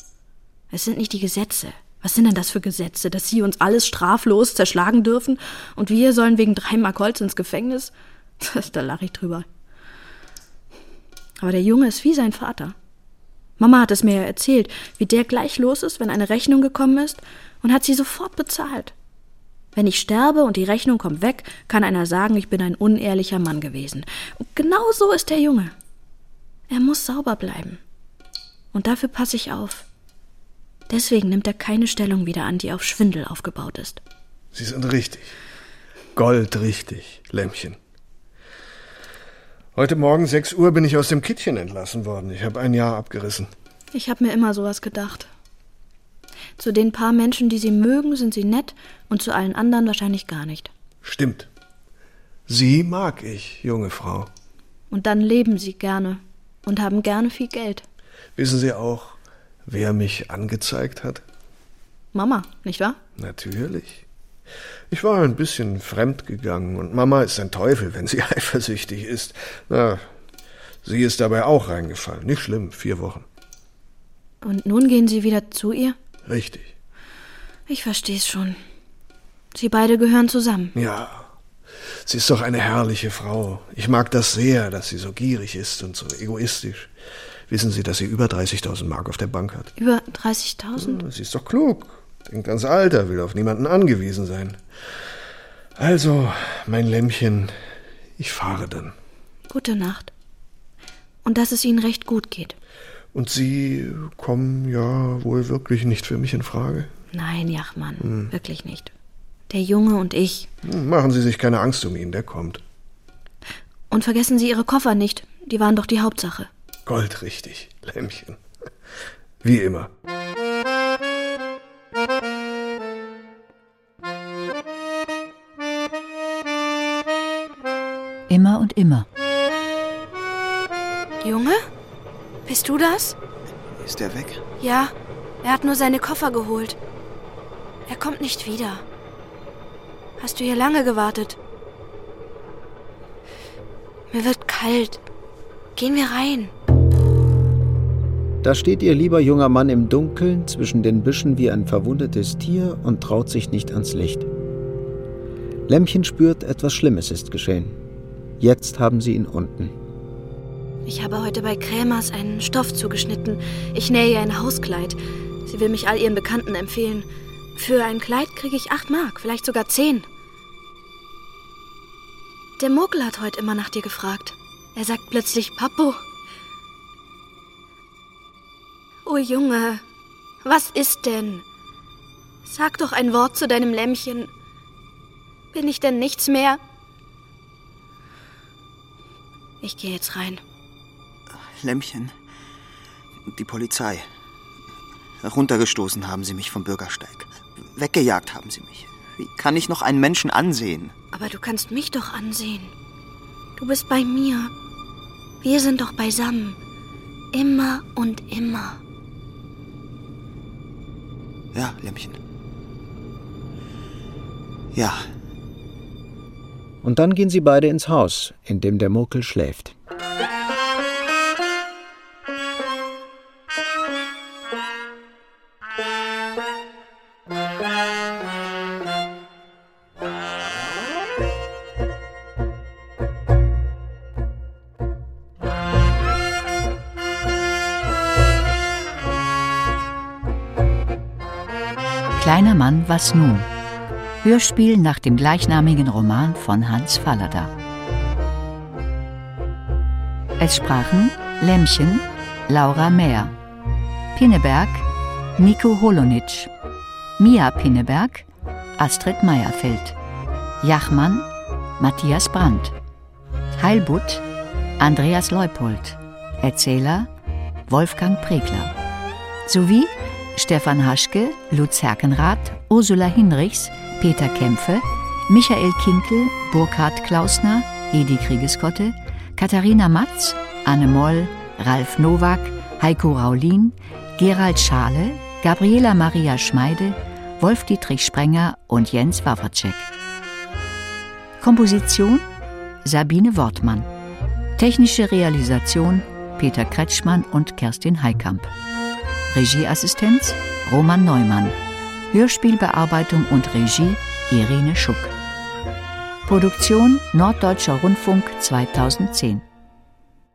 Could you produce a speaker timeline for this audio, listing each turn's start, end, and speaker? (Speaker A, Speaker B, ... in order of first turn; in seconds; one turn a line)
Speaker A: 0.7-9.4
Speaker A: 11.4-12.8
Speaker A: 13.6-18.9
Speaker A: 19.8-25.7
Speaker A: 26.7-27.8
Speaker A: 28.7-29.9
Speaker A: 30.9-34.0
Speaker B: 34.5-35.3
Speaker B: 36.2-37.8
Speaker B: 39.8-43.5
Speaker A: 43.9-45.3
Speaker A: 46.6-50.7
Speaker B: 51.0-51.5
Speaker B: 52.5-54.3
Speaker A: 54.9-57.9
Speaker B: 58.4-61.2
Speaker A: 62.1-63.0
Speaker B: 63.2-64.0
Speaker B: 64.9-70.1
Speaker B: 70.8-73.2
Speaker A: 74.4-76.0
Speaker B: 76.2-76.7
Speaker A: 77.7-78.6
Speaker A: 79.5-80.8
Speaker B: 80.7-81.3
Speaker B: 82.0-86.9
Speaker B: 87.5-89.7
Speaker A: 89.8-91.0
Speaker B: 90.8-94.6
Speaker B: 95.8-97.5
Speaker B: 98.2-98.9
Speaker A: 99.5-100.1
Speaker A: 101.2-102.6
Speaker B: 103.1-106.9
Speaker A: 107.1-108.9
Speaker B: 108.0-108.3
Speaker A: 109.5-110.5
Speaker B: 110.6-112.6
Speaker A: 113.9-116.5
Speaker B: 116.9-118.4
Speaker B: 119.4-119.9
Speaker C: 128.3-129.1
Speaker A: 131.2-131.6
Speaker A: 132.5-133.2
Speaker D: 133.8-134.4
Speaker A: 134.6-136.8
Speaker A: 137.9-138.8
Speaker A: 140.2-141.4
Speaker A: 144.1-145.0
Speaker A: 145.8-146.5
Speaker E: 148.4-154.3
Speaker E: 155.7-157.8
Speaker E: 158.4-159.7
Speaker A: 160.9-170.1
Speaker A: 172.6-176.0
Speaker A: 179.1-179.8
Speaker A: 180.4-181.4
Speaker A: 182.4-184.3
Speaker A: 185.5-186.6
Speaker A: 189.6-190.4
Speaker D: 191.6-192.1
Speaker D: 193.3-194.1
Speaker D: 195.2-200.9
Speaker A: 201.1-202.7
Speaker A: 203.6-204.5
Speaker A: 205.4-206.6
Speaker A: 207.3-208.8
Speaker D: 211.5-212.2
Speaker D: 214.7-215.1
Speaker E: 216.8-219.7
Speaker C: 242.2-243.5
Speaker C: 244.2-247.5
Speaker C: 250.4-253.3
Speaker C: 254.2-254.9
Speaker C: 255.4-256.5
Speaker C: 257.2-258.3
Speaker C: 258.8-260.0
Speaker C: 260.6-261.2
Speaker C: 261.8-262.7
Speaker C: 263.6-264.2
Speaker C: 264.8-267.1
Speaker C: 267.7-268.7
Speaker C: 269.5-289.9
Speaker C: 291.4-292.3
Speaker C: 292.8-293.9
Speaker C: 294.6-298.5
Speaker C: 299.3-301.6
Speaker C: 302.1-305.1
Speaker C: 306.3-309.4